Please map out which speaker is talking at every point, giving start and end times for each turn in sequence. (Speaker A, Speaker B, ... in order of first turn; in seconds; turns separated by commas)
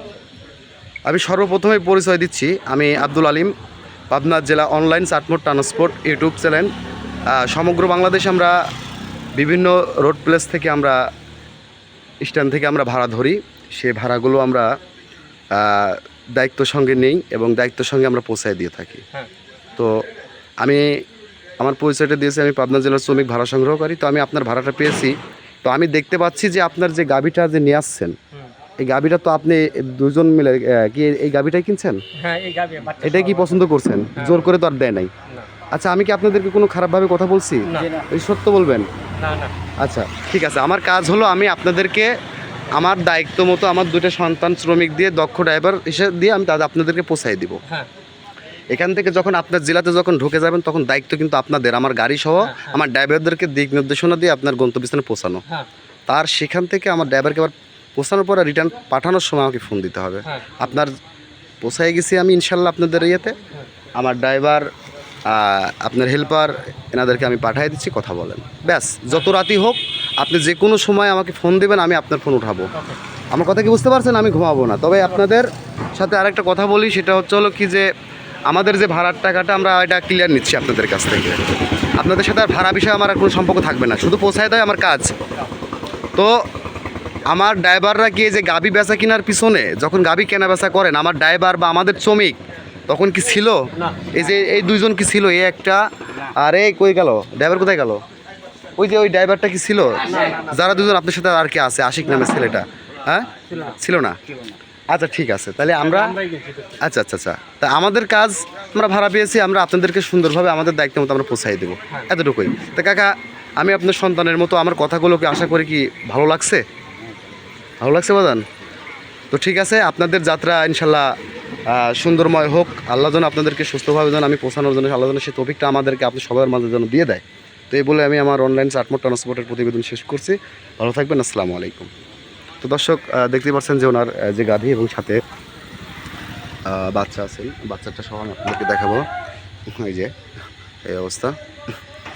Speaker A: 1.1-3.5, Speaker A: 4.1-6.7, Speaker A: 7.3-8.6, Speaker A: 9.4-11.0, Speaker A: 12.2-14.7, Speaker A: 15.5-19.0, Speaker A: 19.8-20.0, Speaker A: 21.6-28.2, Speaker A: 28.8-32.0, Speaker B: 32.1-33.6, Speaker A: 33.0-35.1, Speaker B: 34.2-34.4, Speaker A: 35.7-38.9, Speaker B: 37.7-38.0, Speaker B: 39.2-39.5, Speaker A: 39.8-42.1, Speaker A: 42.7-47.6, Speaker A: 48.7-55.4, Speaker B: 52.5-52.8, Speaker A: 56.1-61.0, Speaker A: 61.6-63.4, Speaker A: 64.0-64.7, Speaker A: 65.3-72.7, Speaker A: 73.3-77.9, Speaker A: 78.5-85.1, Speaker A: 86.2-86.5, Speaker A: 87.3-92.4, Speaker A: 92.9-98.0, Speaker A: 98.8-104.2, Speaker A: 104.9-106.2, Speaker B: 106.0-106.8, Speaker A: 106.8-116.6, Speaker A: 117.8-118.4, Speaker A: 119.3-121.1, Speaker A: 121.7-131.9, Speaker A: 132.6-135.2, Speaker A: 136.7-139.1, Speaker A: 139.7-140.1, Speaker A: 140.8-141.4